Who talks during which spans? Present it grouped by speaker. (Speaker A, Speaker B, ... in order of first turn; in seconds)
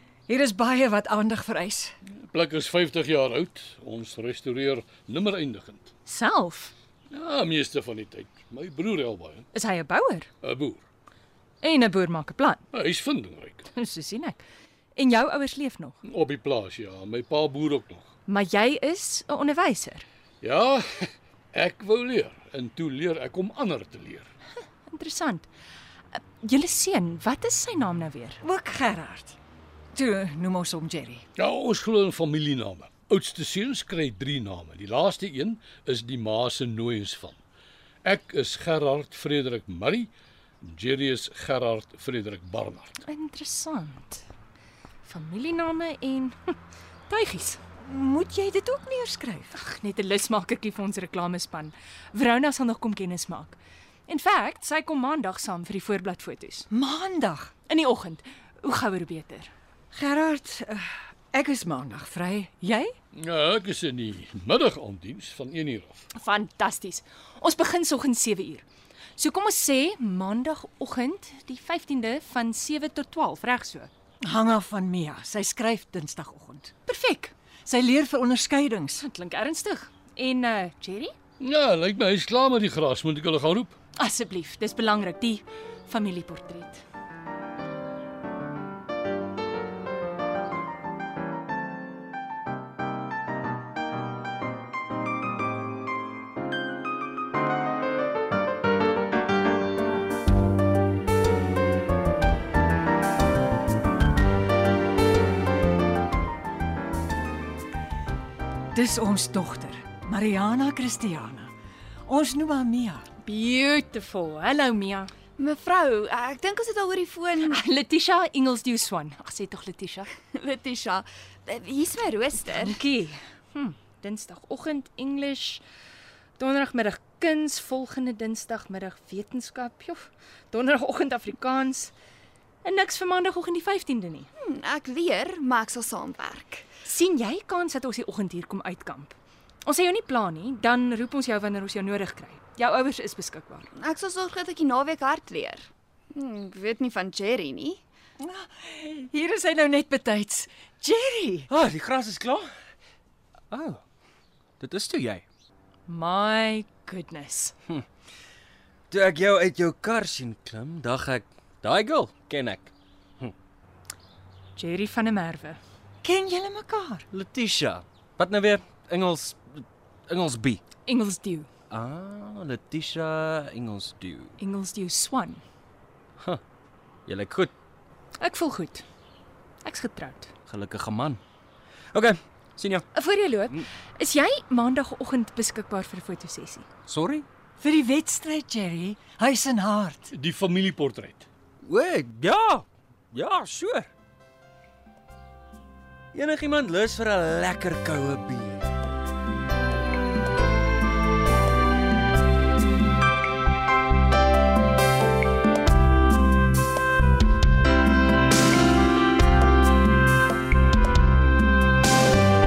Speaker A: 0.3-1.9, 28.4-29.4, 29.9-31.2, 47.8-49.5, 56.7-57.5, 59.9-63.0, 74.2-76.7, 77.6-79.0, 108.7-111.5, 112.0-113.0, 148.2-151.5, 166.0-167.1, 187.6-190.1
Speaker B: 2.3-5.9, 7.1-9.4, 10.4-10.8, 12.7-13.7, 16.0-18.1, 20.4-24.3, 31.4-37.4, 38.0-40.1, 40.6-42.9, 63.1-66.0, 81.4-83.7, 190.1-191.3
Speaker C: 6.0-6.7, 9.5-10.3, 11.6-12.6, 13.7-14.4, 14.9-16.0, 18.3-20.0, 24.9-25.5, 26.1-28.4, 43.0-44.2, 45.0-46.5, 47.1-47.6, 49.5-56.7, 57.7-59.5, 66.1-68.6, 69.2-73.9, 76.8-77.3, 79.0-81.1, 84.0-86.8, 113.2-115.1, 117.4-120.1, 122.5-125.6, 126.4-131.9, 132.6-134.3, 136.8-143.7, 155.9-157.5, 164.5-165.6, 170.8-171.5, 174.4-175.4, 178.2-178.8, 179.6-180.3, 182.9-186.6
Speaker D: 115.4-117.6, 120.3-122.8, 134.4-136.7, 143.8-147.8
Speaker E: 151.5-152.5, 153.5-153.8, 154.6-155.2, 158.9-163.3, 167.1-170.6, 171.7-174.3, 177.1-177.5, 180.5-181.2, 181.9-182.8, 186.9-187.2, 191.6-193.9, 196.1-198.7